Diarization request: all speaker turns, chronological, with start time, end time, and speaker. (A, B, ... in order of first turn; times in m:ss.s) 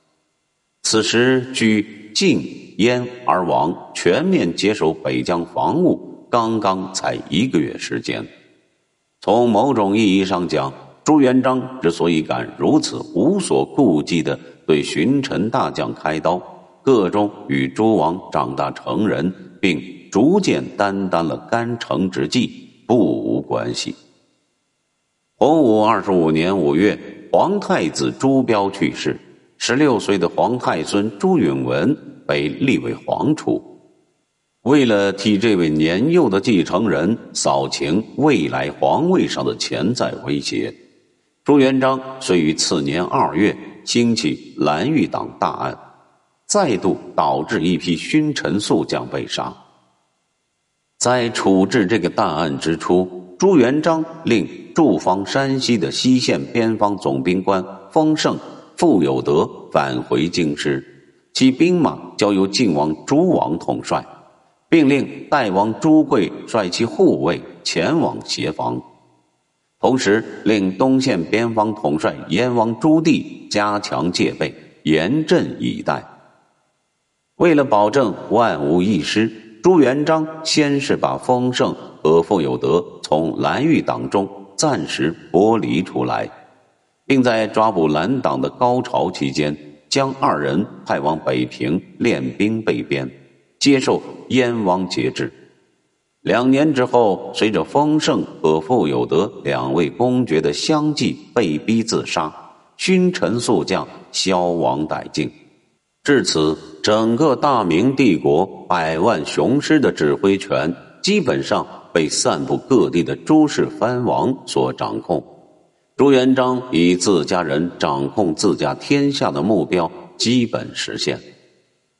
0:00.8-0:08.3 A
0:09.2-0:24.0 A
0:25.4-0:33.7 A
0:34.6-0:40.8 A
0:41.4-0:45.8 A
0:46.5-0:49.6 A
0:51.0-1:04.1 A
1:04.7-1:08.8 A
1:09.8-1:16.1 A
1:17.4-1:26.3 A
1:27.1-1:35.4 A
1:36.2-1:45.3 A
1:46.0-1:55.3 A
1:56.0-2:01.2 A